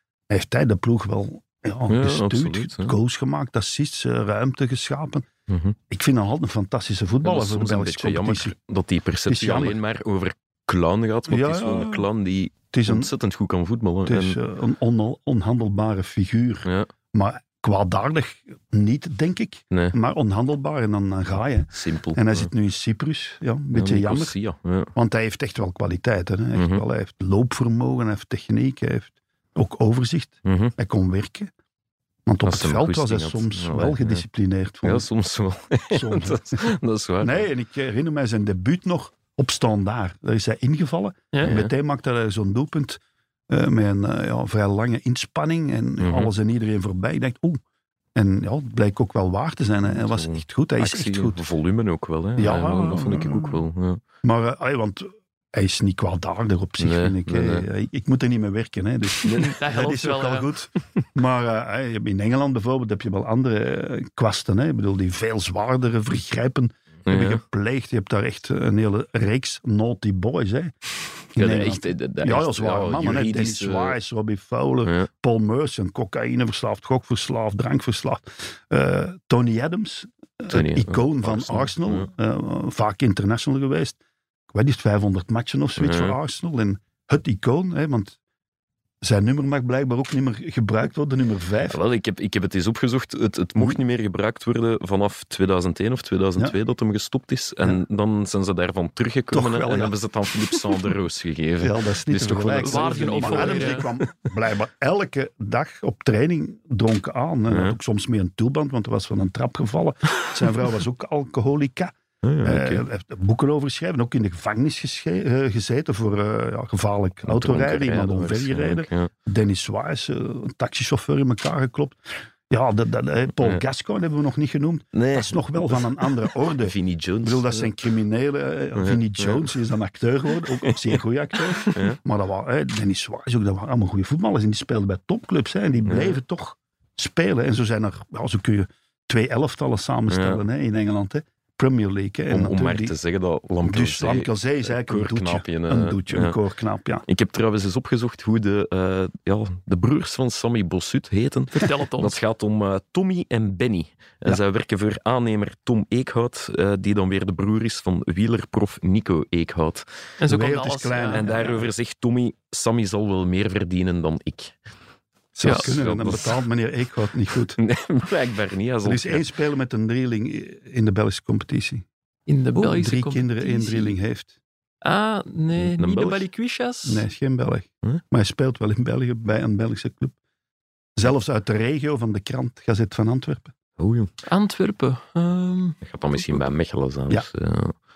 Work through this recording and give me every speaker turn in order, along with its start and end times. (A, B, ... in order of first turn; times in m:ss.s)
0:00.3-0:05.3 A
0:01.9-0:03.0 B
0:05.5-0:05.8 B
0:05.9-0:08.6 A
0:07.2-0:14.4 B
0:09.3-0:09.8 A
0:11.3-0:12.1 A
0:12.7-0:13.1 A
0:14.1-0:24.4 A
0:21.7-0:22.5 B
0:23.7-0:24.9 B
0:25.0-0:31.5 A
0:26.6-0:26.8 B
0:30.4-0:30.7 B
0:32.3-0:35.1 A
0:32.4-0:34.2 B
0:34.8-0:37.5 B
0:35.9-0:43.0 A
0:41.4-0:41.7 B
0:43.5-0:47.6 A
0:46.0-0:46.3 B
0:48.2-0:51.4 A
0:49.8-0:54.0 B
0:52.4-0:53.6 A
0:54.2-1:10.7 A
0:56.8-0:57.7 B
0:59.2-0:59.5 B
0:59.6-1:00.5 C
1:07.1-1:07.4 B
1:11.3-1:24.0 A
1:11.4-1:14.0 B
1:20.5-1:22.1 B
1:24.5-1:28.2 A
1:25.8-1:26.2 B
1:29.0-1:31.8 A
1:31.7-1:44.0 B
1:39.3-1:40.0 A
1:41.6-2:23.0 A
1:42.6-1:43.9 C
1:47.5-1:47.8 B
1:52.2-1:52.8 B
1:57.2-1:59.1 B
2:04.9-2:07.7 B
2:08.8-2:09.6 B
2:10.3-2:11.0 B
2:11.7-2:12.0 B
2:15.9-2:16.2 B
2:20.1-2:20.4 B
2:22.3-2:26.4 B
2:23.6-2:27.0 A
2:27.1-2:39.9 B
2:31.5-2:32.2 C
2:40.2-2:41.2 C
2:40.3-2:41.7 A
2:41.1-2:44.6 B
2:45.4-2:47.6 A
2:45.4-2:46.4 B
2:45.4-2:45.7 C
2:47.6-2:49.3 B
2:48.8-2:51.8 A
2:52.3-2:54.0 C
2:52.6-2:54.3 A
2:54.8-2:57.0 C
2:55.6-2:56.2 B
2:56.8-3:00.1 A
3:01.0-3:03.5 A
3:03.8-3:04.1 B
3:04.3-3:05.8 C
3:05.8-3:07.8 B